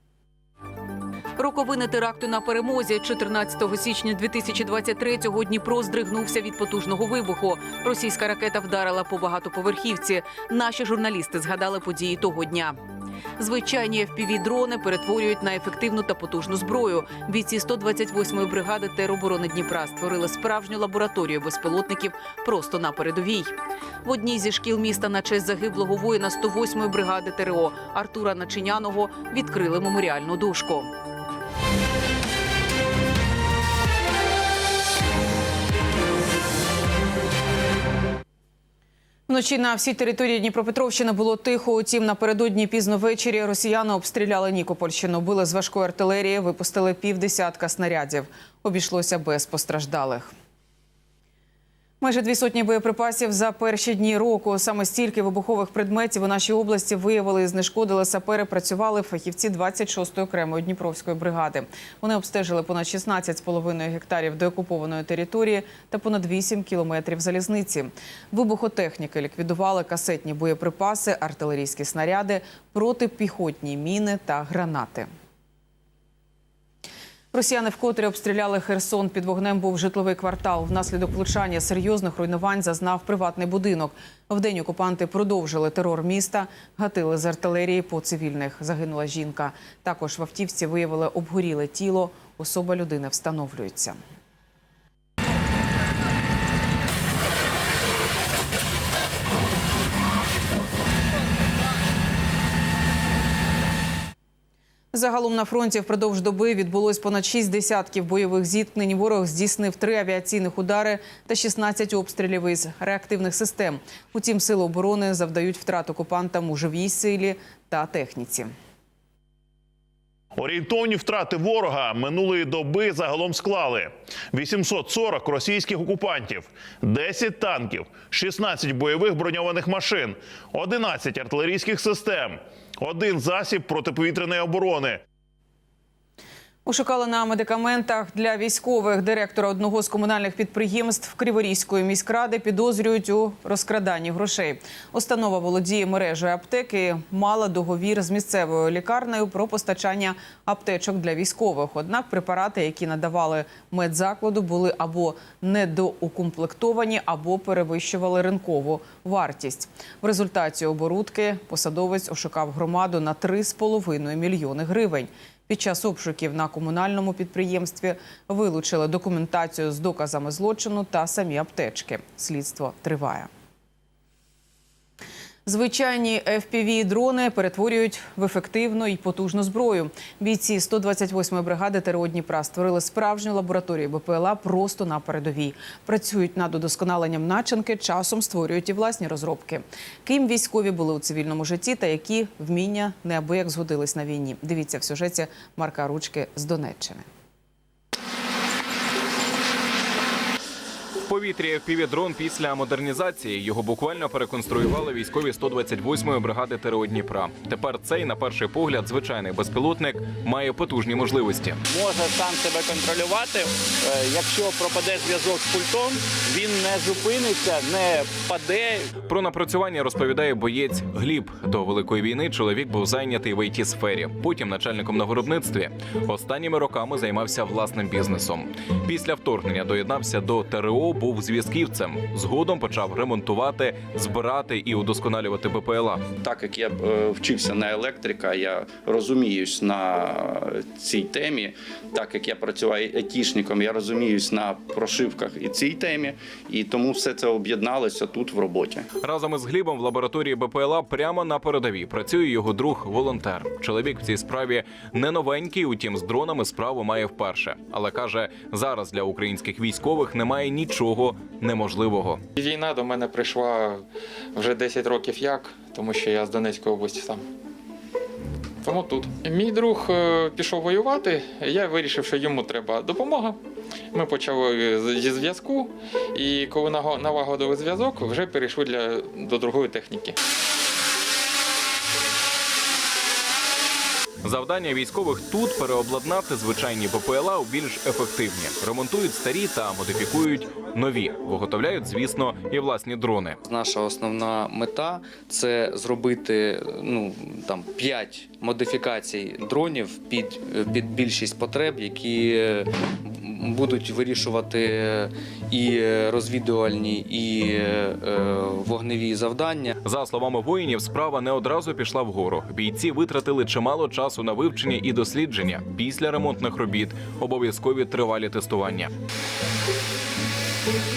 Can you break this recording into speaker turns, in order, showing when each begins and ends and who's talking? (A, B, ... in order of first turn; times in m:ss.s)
0:01.4-0:12.8 A
0:13.4-0:30.9 A
0:39.3-0:50.3 A
0:52.0-1:15.1 A
1:17.3-1:34.0 A
1:44.9-1:58.5 A
2:00.4-2:15.0 B
2:16.7-2:53.3 A
2:55.5-3:17.1 A
3:21.1-3:31.6 C
3:31.7-3:38.9 D
3:39.1-3:56.1 C
3:56.1-4:08.9 E
4:09.0-4:22.2 C
4:22.4-4:23.8 F
4:24.4-4:27.2 F
4:28.6-4:33.4 F
4:33.9-4:40.2 F
4:44.2-4:53.4 C
4:53.4-5:09.7 G
5:09.8-5:18.9 C